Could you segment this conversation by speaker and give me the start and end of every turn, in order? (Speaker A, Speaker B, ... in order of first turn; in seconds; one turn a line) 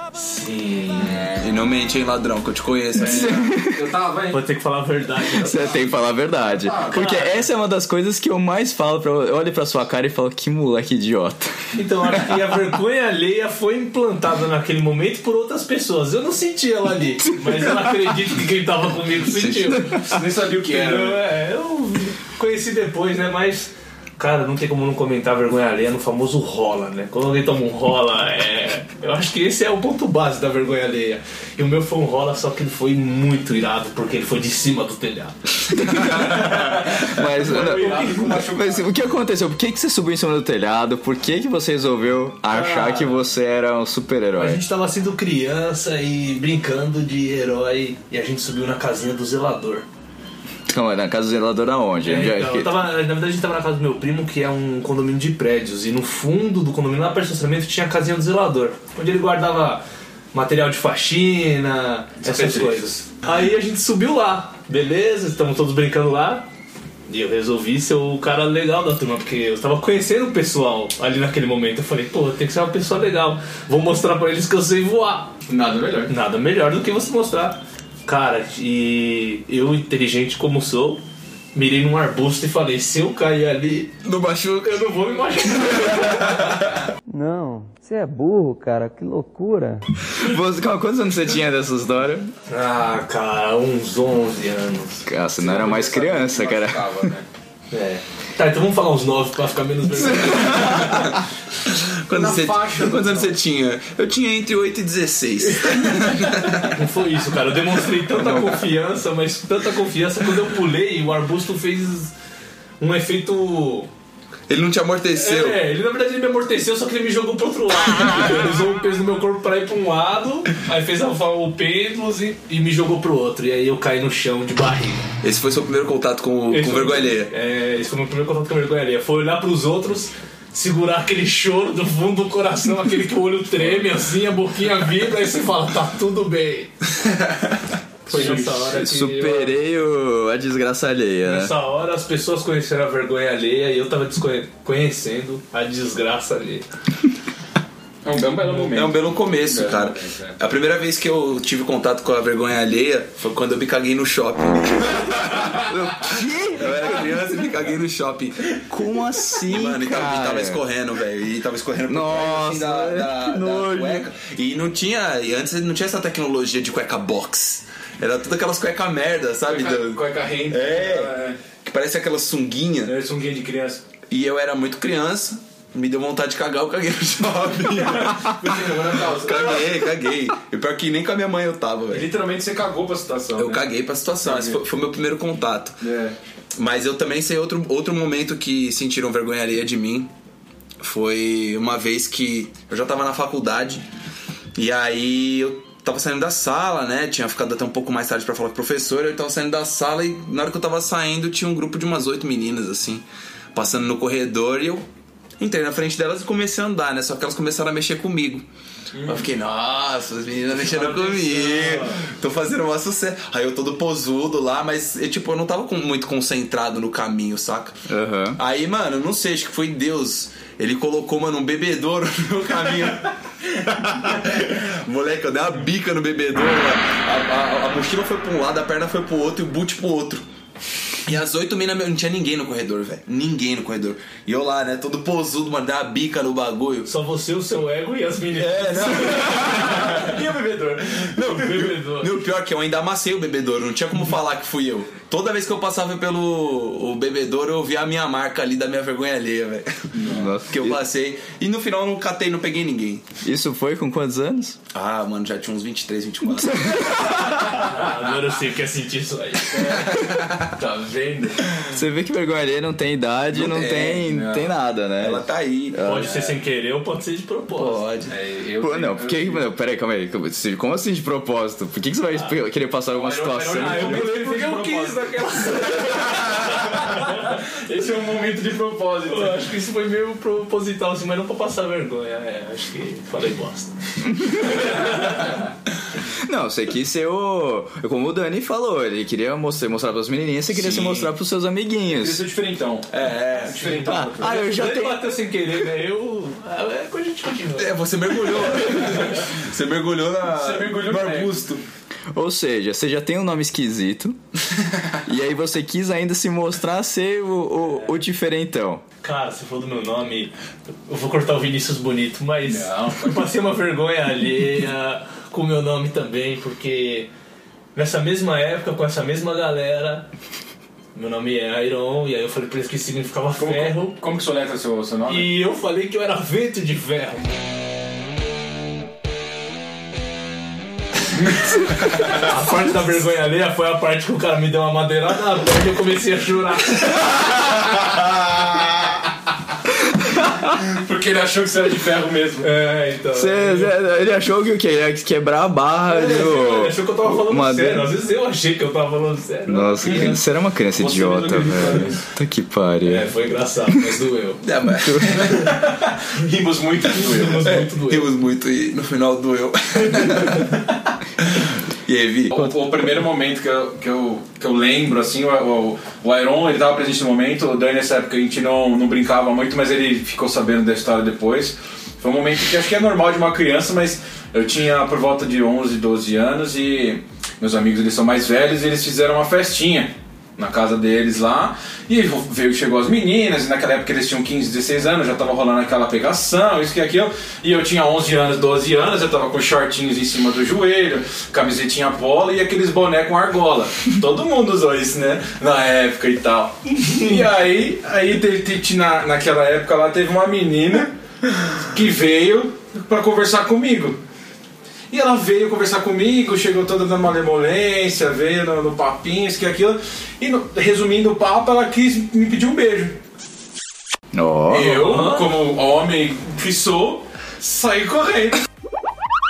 Speaker A: 0.2-1.4
Speaker B: 1.4-3.5
Speaker C: 3.0-4.5
Speaker D: 3.0-3.8
Speaker A: 4.3-5.9
Speaker D: 5.2-11.6
Speaker C: 6.4-7.1
Speaker A: 6.9-7.4
Speaker A: 11.7-20.1
Speaker C: 20.0-21.2
Speaker A: 20.7-36.2
Speaker D: 35.7-44.6
Speaker C: 36.4-38.9
Speaker A: 37.4-38.5
Speaker A: 42.5-43.2
Speaker A: 44.4-49.9
Speaker D: 50.7-52.8
Speaker A: 52.0-66.5
Speaker C: 62.2-63.0
Speaker A: 67.1-75.3
Speaker C: 75.5-76.1
Speaker A: 76.1-81.0
Speaker A: 81.5-83.9
Speaker B: 84.0-86.8
Speaker A: 84.6-86.5
Speaker E: 87.1-89.8
Speaker D: 90.1-92.3
Speaker A: 92.5-95.1
Speaker D: 95.0-97.1
Speaker C: 95.4-97.2
Speaker A: 97.7-101.1
Speaker D: 99.9-101.0
Speaker B: 101.6-106.8
Speaker C: 102.1-103.4
Speaker A: 106.5-112.1
Speaker A: 112.8-113.9
Speaker B: 114.5-115.6
Speaker A: 115.1-125.0
Speaker B: 125.2-127.3
Speaker A: 126.5-136.7
Speaker A: 138.1-139.5
Speaker D: 138.1-141.5
Speaker C: 138.1-138.4
Speaker A: 141.2-146.7
Speaker C: 148.0-150.3
Speaker B: 148.5-155.7
Speaker D: 155.6-157.2
Speaker B: 156.5-158.6
Speaker D: 158.7-160.6
Speaker B: 159.4-172.9
Speaker D: 161.9-164.1
Speaker C: 169.4-171.4
Speaker C: 172.8-173.8
Speaker B: 174.1-182.1
Speaker C: 177.7-179.7
Speaker C: 181.9-183.7
Speaker B: 183.3-185.8
Speaker C: 184.2-184.6
Speaker C: 185.8-186.2
Speaker B: 186.6-190.1
Speaker B: 190.8-193.8
Speaker B: 194.6-204.8
Speaker B: 205.4-208.5
Speaker C: 208.9-209.3
Speaker B: 209.0-217.8
Speaker C: 210.5-211.9
Speaker D: 217.9-218.4
Speaker B: 218.4-230.2
Speaker B: 231.1-236.9
Speaker A: 236.9-240.1
Speaker B: 238.3-240.2
Speaker C: 239.2-241.0
Speaker B: 240.9-253.1
Speaker A: 241.2-242.2
Speaker C: 249.9-250.3
Speaker D: 250.0-250.8
Speaker D: 253.2-254.6
Speaker B: 254.7-257.2
Speaker D: 256.2-257.4
Speaker A: 257.6-259.8
Speaker B: 259.5-260.5
Speaker C: 260.5-261.6
Speaker D: 261.7-266.1
Speaker B: 263.3-264.1
Speaker C: 264.1-264.5
Speaker B: 265.0-266.0
Speaker A: 265.8-267.8
Speaker B: 267.5-268.1
Speaker C: 268.1-269.5
Speaker D: 268.6-274.2
Speaker C: 272.9-279.4
Speaker A: 273.6-277.3
Speaker A: 279.1-285.4
Speaker D: 284.1-284.6
Speaker D: 286.2-292.2
Speaker B: 290.5-291.1
Speaker C: 291.9-294.4
Speaker B: 292.9-293.6
Speaker A: 293.5-297.8
Speaker D: 293.9-295.1
Speaker B: 297.5-301.6
Speaker C: 300.3-301.4
Speaker D: 302.1-304.2
Speaker D: 305.0-308.8
Speaker A: 309.0-310.3
Speaker A: 310.9-317.1
Speaker C: 312.5-313.3
Speaker A: 317.8-320.1
Speaker A: 320.9-324.0
Speaker C: 323.4-325.3
Speaker A: 325.1-327.2
Speaker C: 331.2-332.1
Speaker A: 332.1-337.0
Speaker C: 340.5-342.5
Speaker A: 342.4-343.7
Speaker D: 343.1-347.9
Speaker A: 345.9-350.1
Speaker D: 349.5-353.1
Speaker C: 349.8-350.2
Speaker C: 350.8-352.0
Speaker A: 352.8-354.4
Speaker B: 354.4-355.5
Speaker D: 354.8-355.1
Speaker C: 355.2-357.5
Speaker A: 357.0-358.1
Speaker B: 357.4-360.6
Speaker B: 361.2-362.6
Speaker C: 362.3-400.9
Speaker A: 396.7-397.2
Speaker C: 401.5-404.0
Speaker C: 404.9-413.0
Speaker D: 414.1-414.9
Speaker C: 414.5-418.4
Speaker A: 414.6-415.3